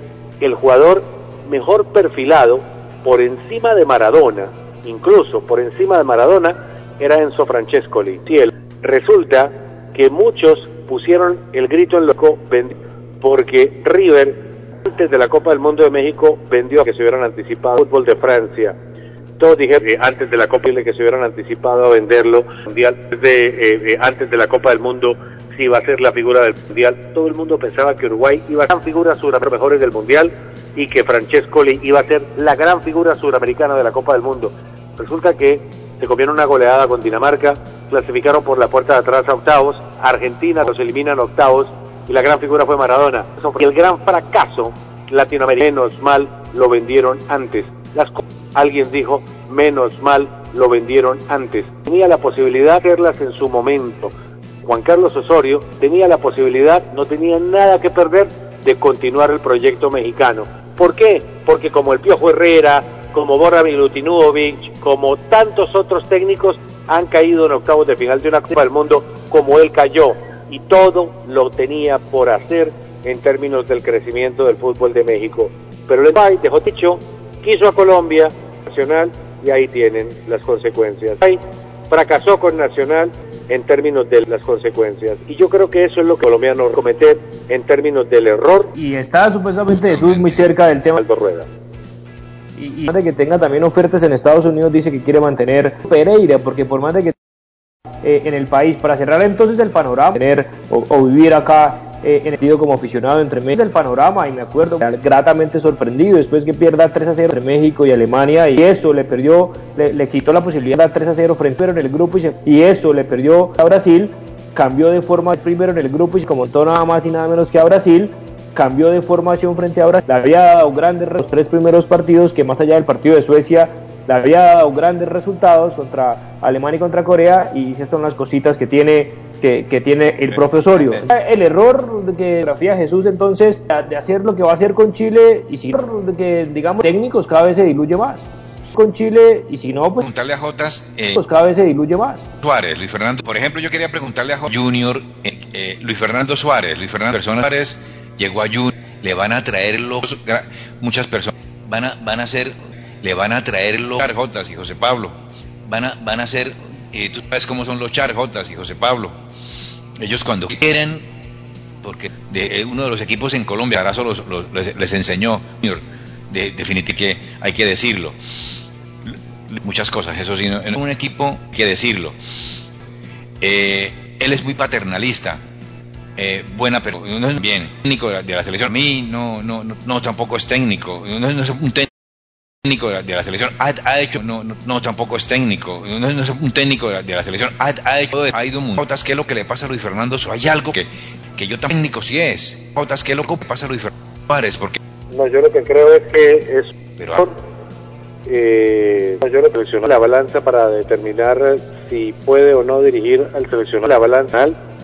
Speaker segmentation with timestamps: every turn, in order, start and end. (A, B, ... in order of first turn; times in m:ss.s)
0:00.4-0:18.7 A
0:19.4-0:54.1 A
0:54.6-1:28.7 A
1:28.8-1:31.0 B
1:29.7-1:30.4 C
1:31.0-1:31.5 A
1:32.6-1:37.2 B
1:38.0-2:20.1 B
2:10.3-2:11.1 C
2:20.0-2:21.2 C
2:21.1-2:22.3 B
2:22.4-2:39.2 C
2:40.0-2:41.1 C
2:41.8-2:48.2 C
2:49.0-2:52.2 C
2:53.4-2:55.4 C
2:56.2-3:01.9 C
3:02.6-3:14.8 C
3:15.1-3:17.4 A
3:17.0-3:17.3 C
3:18.3-3:24.6 A